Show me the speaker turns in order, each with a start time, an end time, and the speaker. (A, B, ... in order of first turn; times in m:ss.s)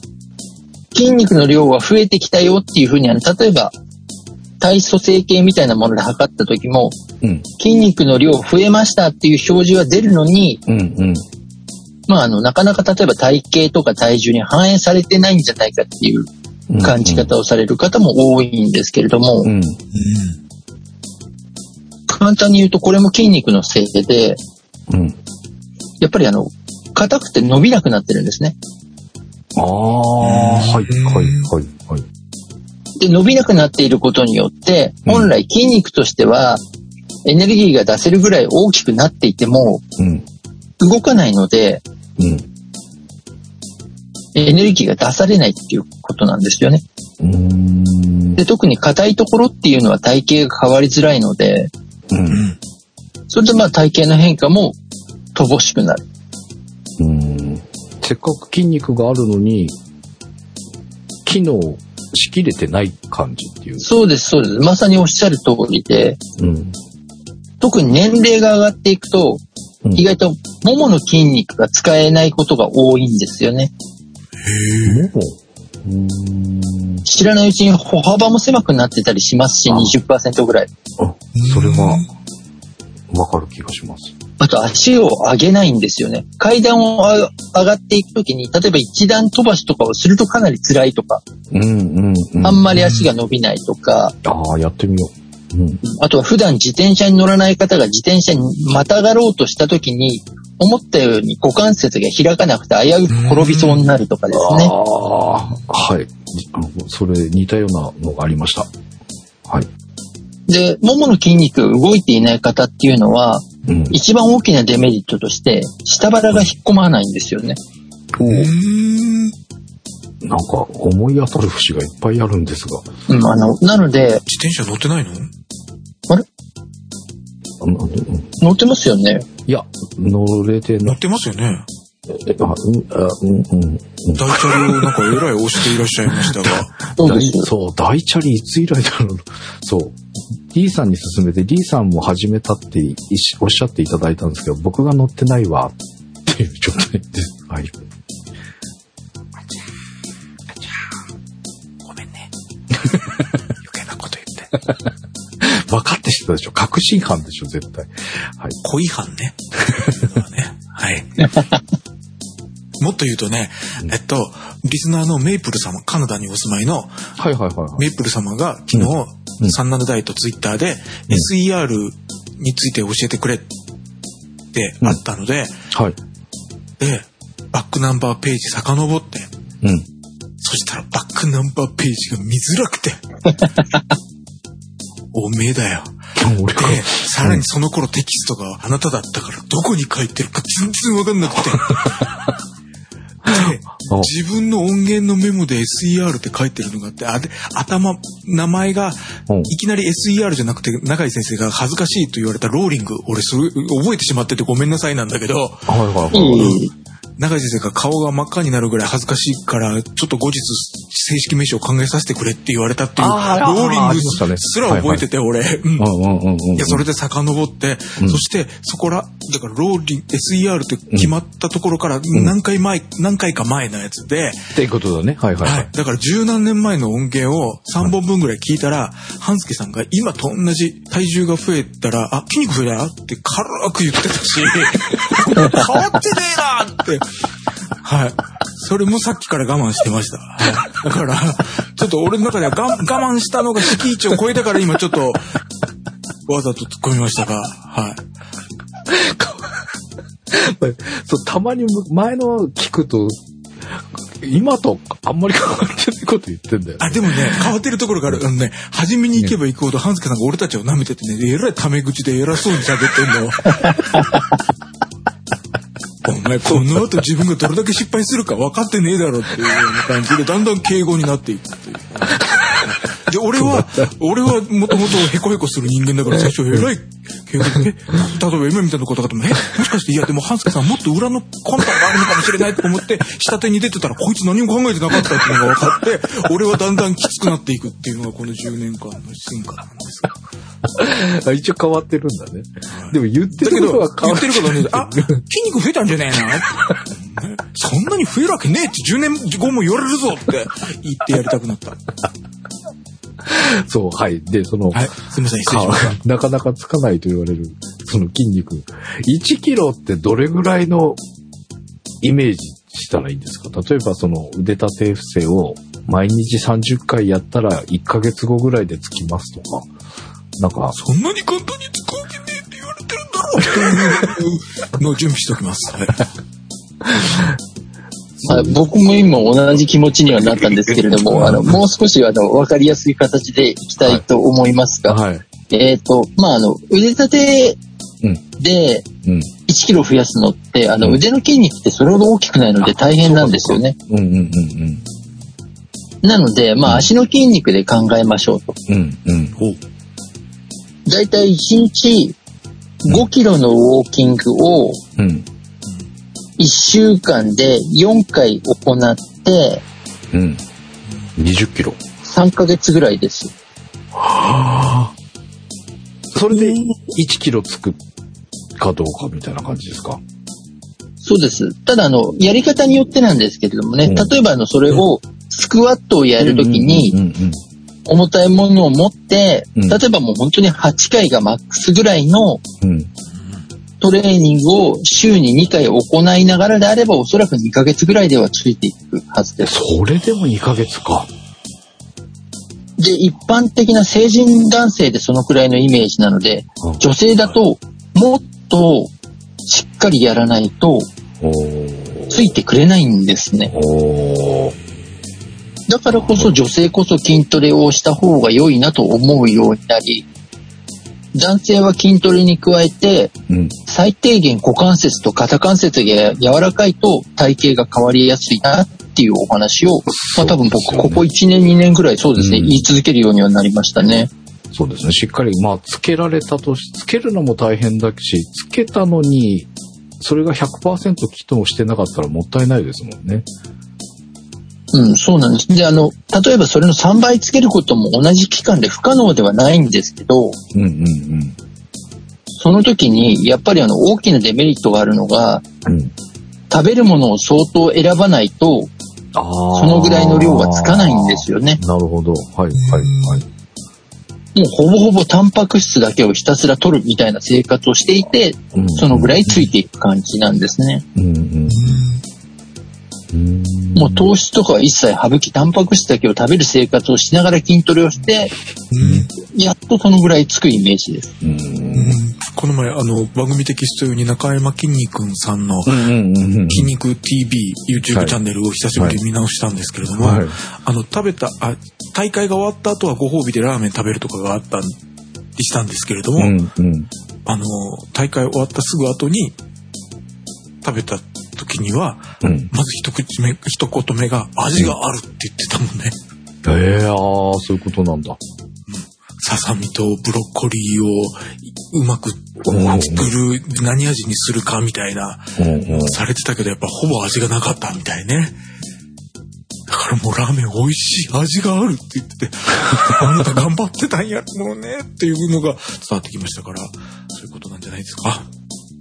0:00.9-0:03.8 A
0:04.6-0:07.0 A
0:07.2-0:07.5 B
0:07.6-0:10.6 A
0:10.7-0:11.3 B
0:12.1-0:16.3 A
0:16.7-0:17.3 B
0:16.8-0:19.5 A
0:19.4-0:19.8 B
0:19.9-0:20.4 C
0:22.1-0:24.4 A
0:24.9-0:25.2 B
0:26.0-0:28.6 A
0:29.6-0:32.0 B
0:30.2-0:31.5 C
0:33.0-0:36.6 A
0:35.1-0:35.3 B
0:37.2-0:39.8 A
0:40.0-0:40.2 B
0:40.8-0:41.8 A
0:42.2-0:42.5 B
0:44.4-0:46.8 A
0:47.2-0:48.4 B
0:48.4-0:51.7 A
0:52.1-0:52.4 B
0:52.3-0:52.6 C
0:53.3-0:54.8 A
0:55.4-0:56.0 A
0:57.0-0:59.8 B
1:01.2-1:03.9 B
1:03.8-1:06.2 A
1:06.4-1:06.8 B
1:07.6-1:09.4 A
1:10.0-1:13.7 A
1:14.4-1:15.1 C
1:14.8-1:17.0 B
1:17.0-1:20.7 A
1:19.7-1:19.9 B
1:21.0-1:22.0 B
1:21.4-1:22.1 C
1:23.1-1:24.1 B
1:24.4-1:31.2 A
1:31.5-1:32.7 B
1:32.4-1:34.2 A
1:32.8-1:33.1 C
1:34.2-1:35.8 B
1:35.8-1:44.7 A
1:43.1-1:43.9 C
1:44.3-1:48.7 B
1:50.5-1:57.6 A
1:53.7-1:54.0 B
1:58.1-1:58.5 B
1:58.2-1:59.4 C
2:00.2-2:02.9 B
2:03.1-2:04.2 A
2:04.3-2:05.3 C
2:07.6-2:08.3 B
2:08.4-2:09.3 A
2:09.5-2:11.0 B
2:10.8-2:11.7 C
2:12.1-2:15.2 B
2:14.2-2:16.8 C
2:16.1-2:27.8 B
2:17.0-2:17.5 A
2:31.8-2:32.3 C
2:32.8-2:34.5 C
2:35.4-2:38.6 B
2:38.6-2:41.3 C
2:39.6-2:40.0 B
2:42.8-2:47.0 C
2:47.2-2:47.9 B
2:47.8-2:53.5 C
2:48.7-2:49.6 B
2:54.5-2:55.6 C
2:55.7-2:56.0 B
2:56.8-2:59.3 C
2:59.6-2:59.9 B
3:00.4-3:03.0 C
3:05.1-3:06.0 C
3:06.2-3:07.4 B
3:06.6-3:12.0 C
3:11.7-3:12.2 B
3:13.2-3:14.1 B
3:13.3-3:26.6 C
3:19.3-3:19.5 B
3:25.7-3:26.6 B
3:26.1-3:26.7 A
3:27.2-3:35.9 C
3:33.0-3:35.0 B
3:35.8-3:36.8 B
3:36.6-3:44.4 C
3:38.0-3:38.2 B
3:44.5-3:45.7 B
3:45.4-3:57.1 C
3:57.8-4:05.3 C
4:06.3-4:08.0 C
4:08.9-4:09.7 B
4:10.3-4:17.5 B
4:16.8-4:24.1 C
4:26.0-4:50.1 C
4:26.5-4:26.8 B
4:33.4-4:33.9 B
4:50.8-4:55.2 B
4:52.7-5:01.8 C
5:03.2-5:04.9 B
5:04.7-5:06.0 C
5:05.5-5:11.0 B
5:12.0-5:19.7 B
5:20.4-5:20.8 B
5:20.7-5:26.1 C
5:23.4-5:24.1 B
5:26.8-5:27.4 B
5:28.2-5:28.6 B
5:28.3-5:37.6 A
5:30.9-5:31.6 B
5:34.9-5:35.2 B
5:38.4-5:38.9 A
5:39.0-5:39.3 B
5:39.5-5:43.8 A
5:43.0-5:44.8 B
5:46.0-5:48.6 A
5:48.7-5:49.4 B
5:50.9-5:52.2 A
5:52.8-5:54.8 A
5:55.0-5:55.3 B
5:56.4-5:59.6 A
6:00.1-6:00.4 B
6:01.2-6:01.8 B
6:02.0-6:03.3 A
6:04.0-6:04.9 B
6:06.1-6:07.8 B
6:06.4-6:06.7 C
6:08.6-6:10.0 B
6:11.0-6:17.0 A
6:13.8-6:14.1 B
6:16.2-6:17.4 B
6:17.9-6:22.4 A
6:22.6-6:22.9 B
6:23.8-6:29.5 A
6:29.4-6:31.1 B
6:32.8-6:38.9 A
6:39.5-6:40.9 A
6:41.2-6:42.4 B
6:42.1-6:43.5 A
6:43.5-6:44.6 B
6:45.7-6:50.1 A
6:45.9-6:46.3 B
6:51.1-6:53.1 A
6:53.3-6:53.6 B
6:53.7-7:04.1 A
6:59.9-7:01.0 B
7:02.2-7:02.6 B
7:04.5-7:13.3 B
7:14.7-7:20.4 A
7:20.5-7:21.4 B
7:22.4-7:25.4 A
7:25.6-7:25.9 B
7:26.5-7:28.7 A
7:29.2-7:33.2 B
7:29.5-7:31.6 A
7:32.5-7:33.2 C
7:34.4-7:40.8 A
7:38.5-7:39.5 B
7:41.0-7:41.8 B
7:41.5-7:42.0 C
7:43.1-7:44.1 B
7:43.8-7:48.3 A
7:48.7-7:49.1 C
7:48.8-7:49.1 B
7:49.2-7:51.1 A
7:51.2-7:52.0 B
7:51.7-7:55.9 C
7:55.7-7:56.7 B
7:56.5-8:04.8 C
7:57.9-7:58.2 B
7:59.9-8:00.4 B
8:05.4-8:06.4 C
8:06.2-8:06.9 B
8:07.3-8:09.4 C
8:10.6-8:16.0 C
8:12.2-8:12.5 B
8:16.4-8:18.2 B
8:18.7-8:28.4 C
8:22.4-8:23.1 B
8:25.4-8:26.0 B
8:29.7-8:38.3 C